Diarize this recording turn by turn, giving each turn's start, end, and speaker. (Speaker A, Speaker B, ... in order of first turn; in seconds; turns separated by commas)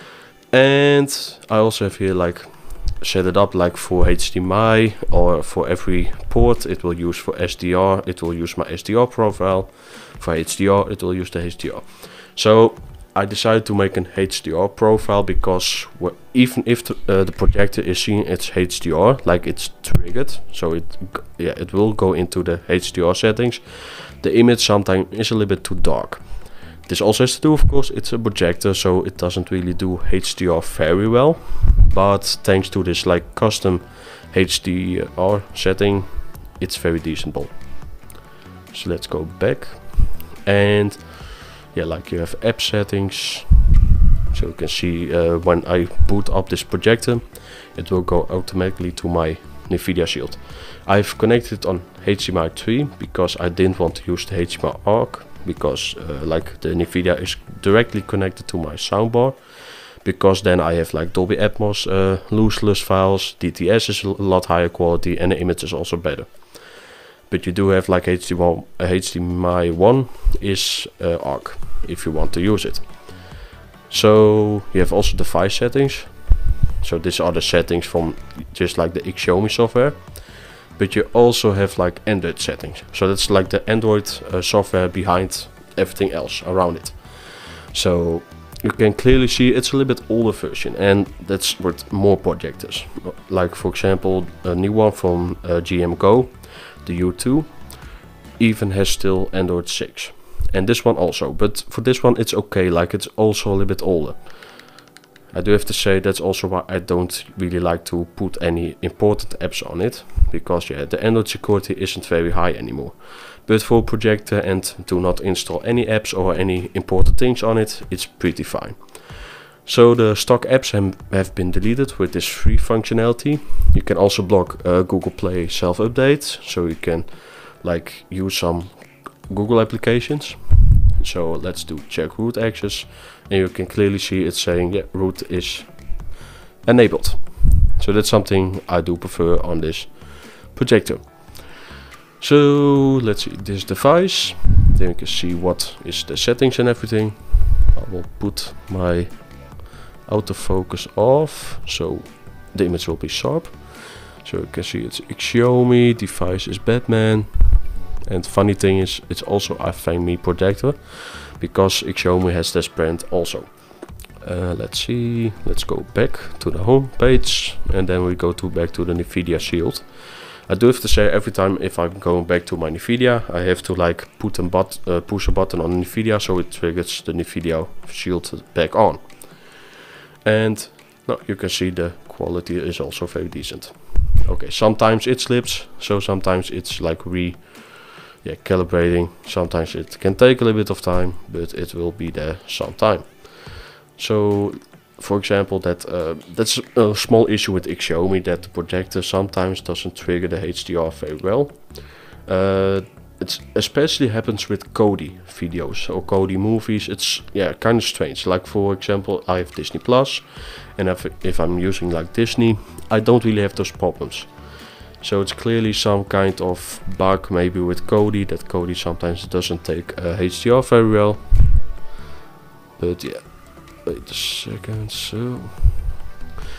Speaker A: 0.5-38.0, Speaker A: 38.7-73.2, Speaker A: 73.9-104.7, Speaker A: 105.3-141.6, Speaker A: 142.2-179.5, Speaker A: 180.2-221.7, Speaker A: 222.8-226.0